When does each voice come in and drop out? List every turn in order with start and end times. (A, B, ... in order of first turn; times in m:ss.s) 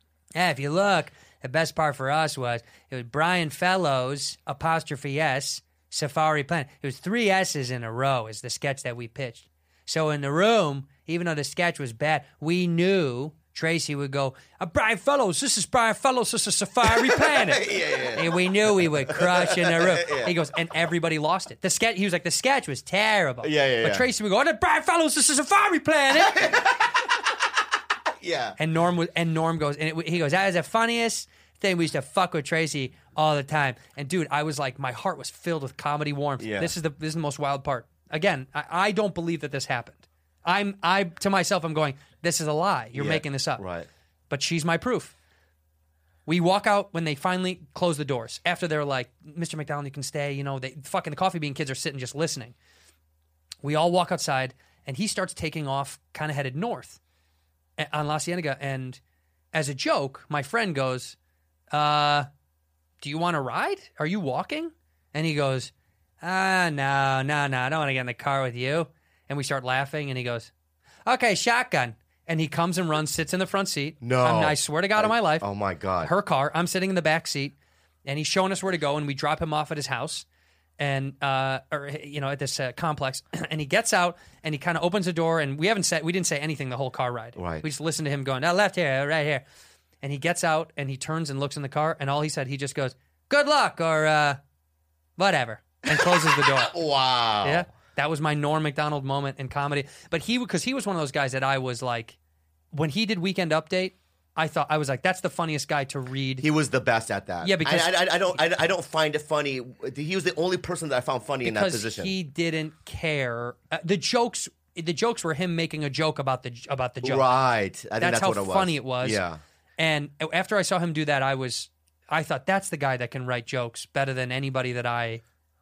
0:00.3-0:26.5 A
0:16.8-0:20.4 B
0:23.4-0:24.0 B
0:26.1-0:26.9 B
0:28.2-0:28.6 B
0:28.6-0:43.6 A
0:36.4-0:36.7 B
0:42.9-0:43.9 B
0:44.3-0:45.1 A
0:46.2-0:52.5 A
0:53.6-0:57.0 A
0:57.8-0:59.0 A
0:59.5-1:01.2 A
1:01.7-1:02.3 A
1:03.0-1:10.5 A
1:11.0-1:15.4 A
1:14.0-1:16.1 B
1:16.0-1:17.5 A
1:18.0-1:20.2 A
1:20.8-1:29.4 A
1:27.4-1:27.6 B
1:30.0-1:34.4 A
1:35.2-1:36.7 A
1:35.9-1:37.7 B
1:37.4-1:42.2 A
1:42.7-1:46.5 A
1:46.4-1:52.1 B
1:47.4-1:48.0 A
1:51.4-1:57.2 A
1:57.0-1:59.4 B
1:58.0-1:59.2 A
1:59.8-2:05.2 A